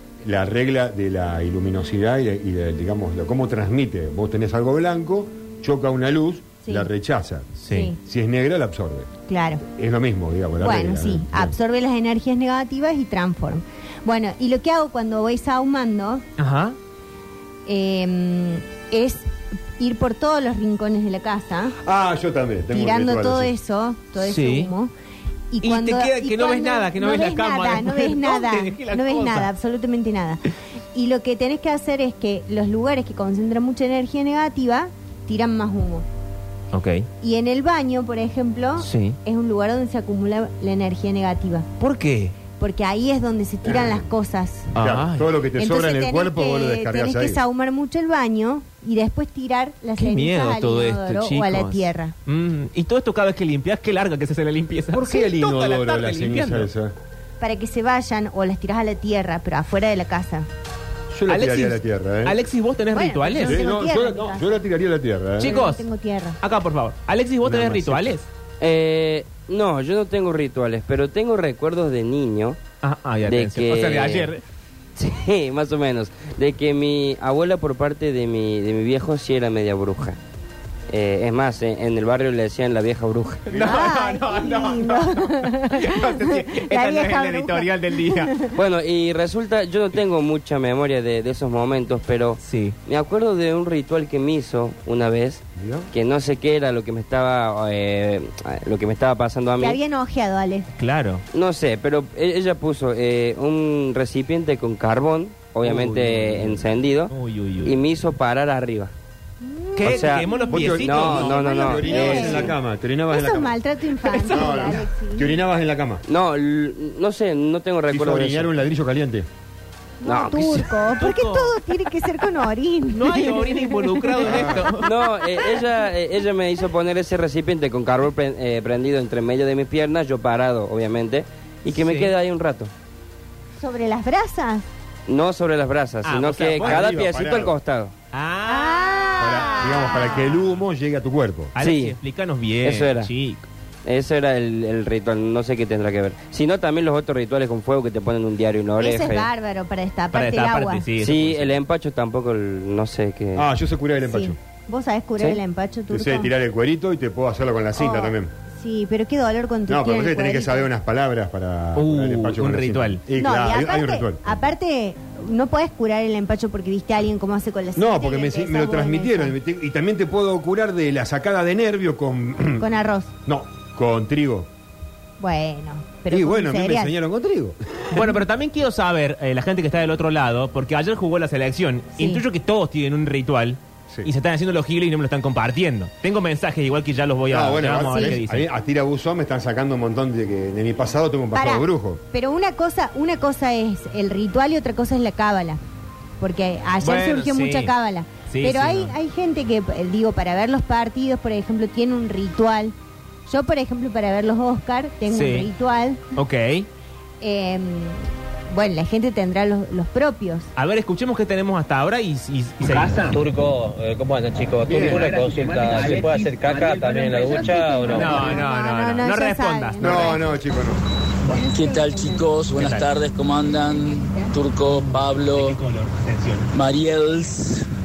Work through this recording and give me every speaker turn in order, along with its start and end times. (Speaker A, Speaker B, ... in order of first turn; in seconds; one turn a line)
Speaker A: 0.2-9.1
Speaker B: 7.6-7.9
Speaker C: 7.7-8.0
Speaker C: 9.3-9.6
Speaker A: 9.7-11.6
Speaker C: 10.6-16.2
Speaker B: 16.4-16.8
Speaker C: 17.6-19.3
Speaker C: 19.8-21.7
Speaker A: 21.8-23.5
Speaker C: 22.7-24.9
Speaker B: 24.2-24.7
Speaker C: 25.5-30.4
Speaker B: 25.6-29.5
Speaker C: 30.9-36.0
Speaker B: 36.7-37.1
Speaker C: 37.2-41.7
Speaker B: 38.8-39.2
Speaker B: 41.8-42.3
Speaker C: 42.6-44.7
Speaker A: 43.6-44.1
Speaker B: 44.7-45.3
Speaker A: 44.8-47.4
Speaker C: 45.6-52.1
Speaker B: 50.0-56.7
Speaker A: 54.9-56.9
Speaker C: 57.4-60.5
Speaker A: 61.1-62.4
Speaker B: 61.3-63.6
Speaker C: 62.9-64.5
Speaker A: 63.4-65.6
Speaker B: 65.4-65.8
Speaker C: 65.4-66.4
Speaker B: 66.4-68.3
Speaker A: 67.4-68.2
Speaker D: 68.6-72.6
Speaker B: 72.8-74.4
Speaker D: 73.2-74.3
Speaker D: 75.0-80.2
Speaker D: 80.9-83.6
Speaker B: 83.5-88.3
Speaker C: 83.6-88.5
Speaker D: 88.5-99.8
Speaker B: 92.4-92.8
Speaker A: 95.6-95.9
Speaker C: 99.6-100.7
Speaker B: 100.8-101.2
Speaker D: 101.3-108.9
Speaker B: 105.6-107.8
Speaker C: 109.4-110.6
Speaker B: 109.8-111.6
Speaker D: 109.8-112.5
Speaker A: 109.9-113.5
Speaker C: 111.4-112.5
Speaker C: 113.1-115.3
Speaker B: 114.0-114.5
Speaker A: 114.2-116.0
Speaker D: 116.1-118.5
Speaker A: 117.9-119.3
Speaker C: 120.0-124.5
Speaker D: 120.0-120.7
Speaker B: 121.0-121.9
Speaker B: 122.9-125.2
Speaker A: 124.2-124.6
Speaker D: 124.8-132.7
Speaker B: 131.7-132.1
Speaker C: 133.6-134.7
Speaker D: 135.1-137.9
Speaker B: 136.0-137.0
Speaker A: 136.6-137.6
Speaker B: 138.1-139.1
Speaker C: 138.4-140.3
Speaker A: 139.2-141.5
Speaker B: 141.5-143.4
Speaker D: 141.6-141.9
Speaker D: 142.6-143.1
Speaker D: 143.8-149.3
Speaker C: 148.8-150.8
Speaker B: 150.1-151.6
Speaker D: 151.0-153.5
Speaker A: 153.3-154.4
Speaker C: 154.1-156.3
Speaker A: 155.9-158.3
Speaker C: 157.8-160.7
Speaker A: 159.7-164.5
Speaker B: 161.7-163.0
Speaker C: 163.2-169.3
Speaker A: 167.8-172.6
Speaker C: 172.6-173.1
Speaker A: 173.2-174.5
Speaker C: 175.2-176.9
Speaker A: 176.1-178.1
Speaker B: 177.9-188.5
Speaker A: 187.3-192.0
Speaker C: 187.9-188.2
Speaker C: 191.3-195.6
Speaker C: 196.2-202.7
Speaker B: 196.8-197.7
Speaker B: 198.3-198.9
Speaker C: 203.3-206.0
Speaker B: 205.1-205.5
Speaker B: 206.1-206.7
Speaker C: 207.2-210.5
Speaker B: 210.6-213.1
Speaker E: 212.7-218.3
Speaker B: 217.9-220.2
Speaker C: 218.1-220.4
Speaker A: 219.8-220.8
Speaker C: 221.2-222.3
Speaker F: 221.4-225.6
Speaker B: 222.6-222.9
Speaker B: 225.3-226.5
Speaker F: 226.5-227.7